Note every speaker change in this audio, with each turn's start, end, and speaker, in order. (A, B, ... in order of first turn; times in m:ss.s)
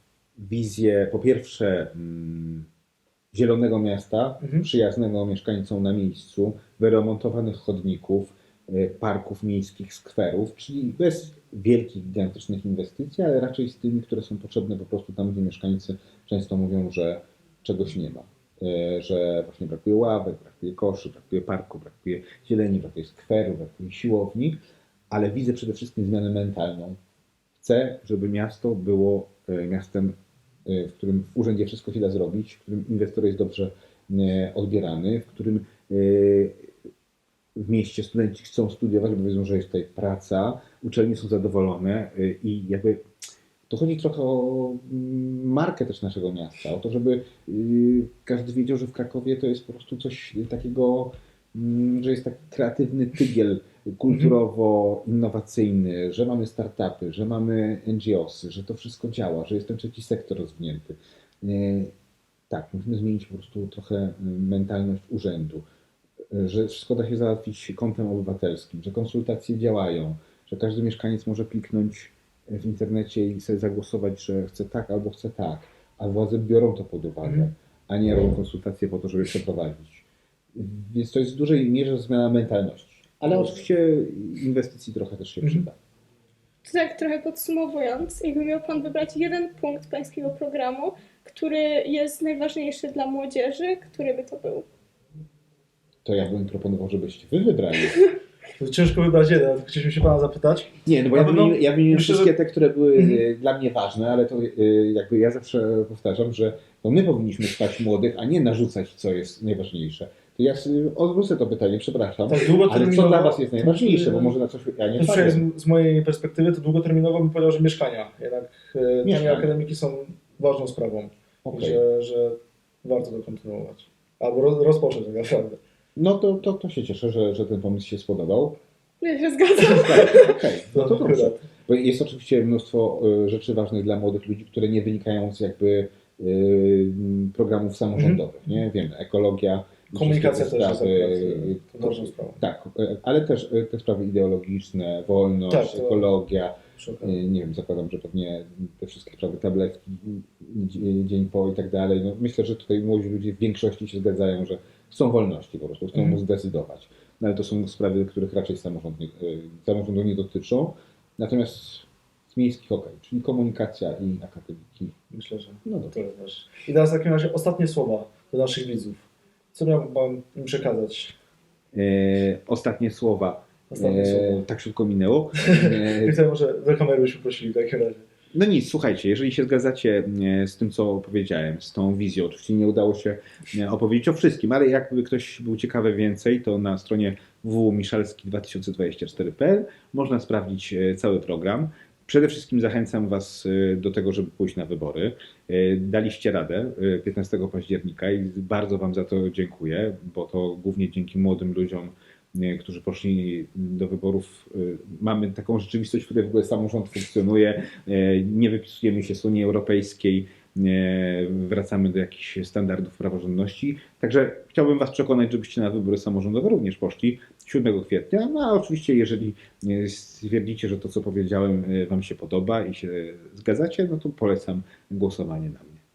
0:00.4-0:02.7 A
0:03.3-0:24.6 A
0:04.4-0:04.7 B
0:25.1-0:27.0 A
0:27.6-0:36.7 A
0:37.6-0:43.0 A
0:43.7-1:01.9 A
0:54.1-0:54.4 B
1:02.5-1:05.6 A
1:06.3-1:25.8 A
1:17.2-1:17.5 B
1:23.3-1:23.6 B
1:25.4-1:25.7 B
1:26.6-1:34.7 C
1:36.0-1:38.0 A
1:38.6-1:42.3 B
1:40.8-1:55.4 A
1:43.0-1:43.2 B
1:52.3-1:54.4 B
1:55.0-2:05.6 B
1:59.0-1:59.5 A
2:01.4-2:01.8 A
2:06.0-2:08.6 A
2:09.0-2:10.4 C
2:09.6-2:45.0 A
2:10.7-2:11.4 B
2:19.9-2:22.4 B
2:25.5-2:26.1 B
2:26.8-2:27.2 B
2:45.1-2:51.2 B
2:45.6-2:46.0 A
2:51.7-2:56.2 A
2:53.7-2:54.4 B
2:55.4-2:58.0 B
2:58.3-3:45.8 A